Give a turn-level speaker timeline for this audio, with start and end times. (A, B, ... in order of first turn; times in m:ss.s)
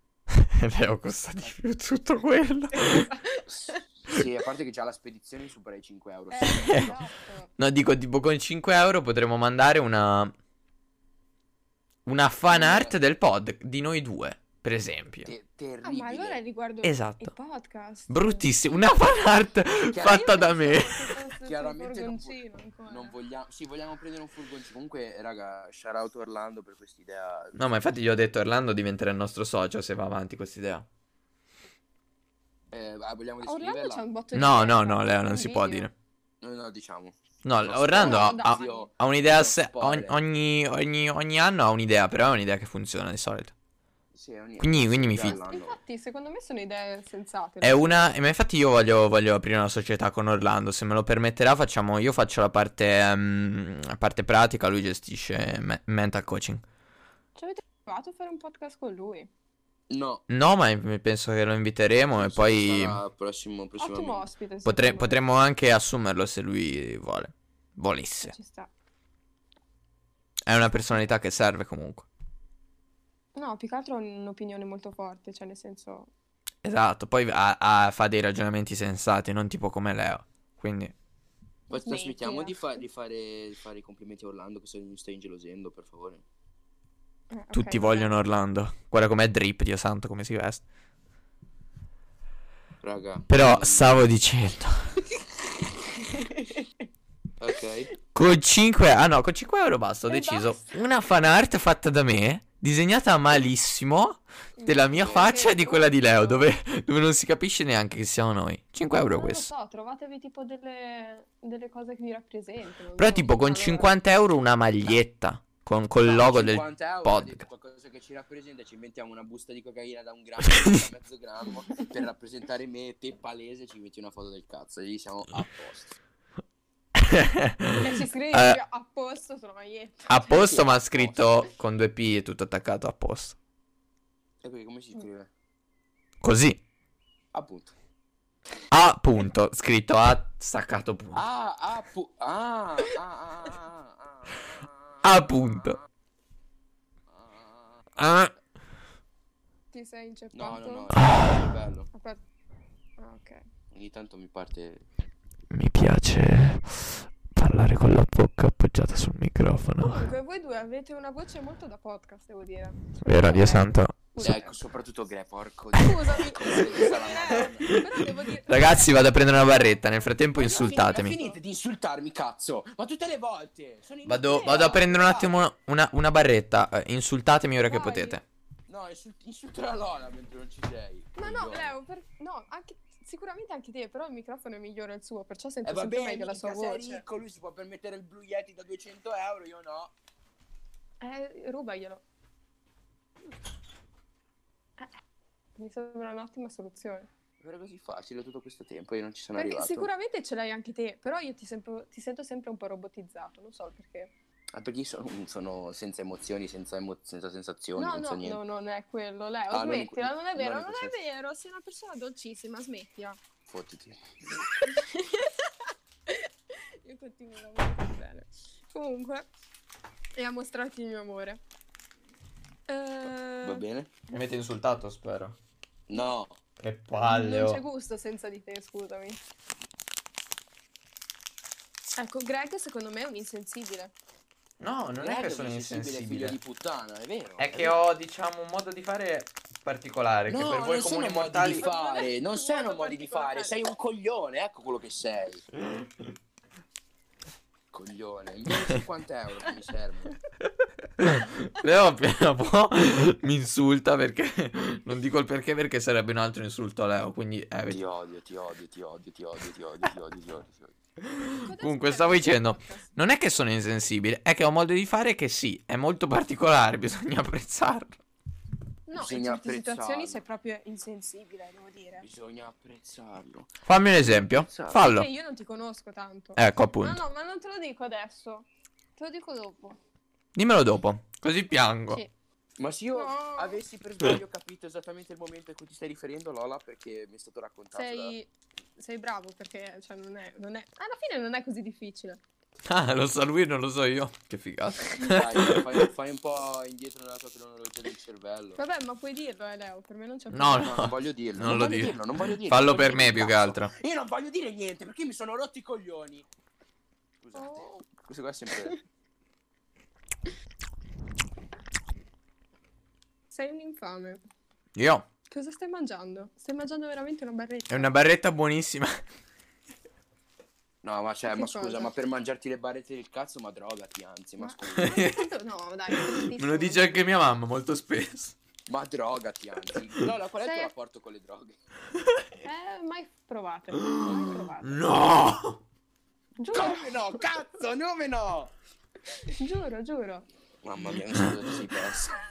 0:00.3-0:03.1 A
0:02.7-0:03.8 B
0:04.0-0:07.0 C
0:06.3-0:07.5 B
0:06.5-0:06.9 A
0:07.6-0:10.3 A
0:12.1-0:15.3 A
0:12.5-0:12.9 C
0:15.2-0:16.4 C
0:15.8-0:18.5 B
0:16.8-0:17.3 A
0:18.1-0:21.1 A
0:19.9-0:20.4 C
0:20.0-0:23.1 B
0:21.4-0:27.6 C
0:27.6-0:30.9 A
0:32.7-0:34.0 C
0:33.4-0:35.9 B
0:34.3-0:35.9 A
0:36.4-0:40.2 C
0:37.4-0:43.5 A
0:37.9-0:38.9 B
0:44.1-0:45.8 C
0:44.6-0:45.4 A
0:45.2-0:48.0 B
0:47.6-0:56.6 A
0:57.4-0:59.3 B
0:59.9-1:00.2 C
1:00.3-1:03.0 A
1:02.1-1:04.3 C
1:03.8-1:05.2 B
1:04.6-1:08.3 A
1:08.2-1:08.7 B
1:10.4-1:12.1 A
1:13.4-1:16.1 B
1:16.6-1:20.9 A
1:21.7-1:22.8 B
1:21.7-1:26.2 C
1:27.3-1:28.2 B
1:27.5-1:30.6 A
1:32.8-1:34.1 C
1:33.3-1:35.0 A
1:36.0-1:36.7 B
1:37.4-1:37.9 C
1:38.1-1:49.5 A
1:40.1-1:40.8 B
1:44.6-1:46.5 B
1:45.0-1:45.3 C
1:49.0-1:53.9 B
1:53.0-1:57.4 A
1:56.0-2:06.0 C
2:00.4-2:00.9 A
2:07.0-2:08.6 A
2:07.8-2:10.4 B
2:10.1-2:13.4 A
2:10.3-2:11.4 C
2:14.4-2:15.3 C
2:16.2-2:16.6 A
2:17.3-2:17.7 C
2:18.7-2:21.2 A
2:21.1-2:25.8 C
2:25.0-2:25.8 A
2:27.1-2:27.9 C
2:28.0-2:28.3 A
2:29.7-2:31.0 B
2:30.3-2:31.9 C
2:31.0-2:31.4 A
2:31.9-2:32.2 B
2:33.0-2:33.4 B
2:33.7-2:34.8 C
2:35.5-2:40.1 A
2:39.8-2:44.6 B
2:43.0-2:44.0 A
2:44.2-2:47.8 C
2:45.8-2:51.4 B
2:48.4-2:51.2 A
2:50.5-2:55.1 C
2:54.1-2:58.2 A
2:54.3-2:55.4 B
2:57.6-2:58.2 B
2:58.7-3:01.7 C
3:01.2-3:07.0 B
3:05.6-3:09.9 C
3:11.0-3:12.0 B
3:15.6-3:17.1 B
3:17.4-3:19.9 C
3:19.4-3:24.1 B
3:24.5-3:28.4 C
3:27.8-3:33.2 B
3:29.5-3:30.9 C
3:33.5-3:34.1 C
3:34.6-3:39.3 B
3:40.2-3:41.4 B
3:42.7-3:43.6 B
3:43.4-3:43.9 C
3:44.1-3:45.4 A
3:45.9-3:46.4 C
3:46.6-3:47.6 A
3:47.0-3:49.2 B
3:52.0-3:53.9 B
3:54.6-3:56.4 A
3:55.0-3:57.8 C
3:57.4-4:01.7 A
4:00.3-4:05.4 C
4:01.5-4:03.6 B
4:07.7-4:10.2 C
4:11.0-4:17.8 A
4:17.7-4:20.7 C
4:21.1-4:28.0 A
4:21.3-4:22.9 B
4:28.9-4:32.1 B
4:29.0-4:30.2 C
4:32.0-4:34.8 C
4:33.6-4:35.1 A
4:34.7-4:39.8 B
4:36.4-4:37.0 A
4:40.4-4:42.0 A
4:42.6-4:48.1 C
4:42.9-4:43.6 B
4:47.7-4:52.2 B
4:52.6-4:55.8 A
4:55.0-4:58.6 C
4:58.6-5:00.9 B
5:00.3-5:03.7 A
5:00.6-5:06.3 C
5:07.2-5:08.8 C
5:07.4-5:07.9 B
5:13.3-5:14.2 B
5:14.8-5:15.0 A
5:15.3-5:18.0 B
5:17.7-5:19.0 A
5:20.8-5:25.0 C
5:21.3-5:21.9 B
5:24.4-5:27.0 B
5:24.8-5:25.3 A
5:25.9-5:28.4 A
5:28.7-5:31.6 C
5:30.4-5:30.7 B
5:32.4-5:34.9 B
5:33.8-5:35.6 A
5:36.4-5:37.1 B
5:36.5-5:38.5 C
5:39.3-5:40.3 B
5:40.6-5:42.2 C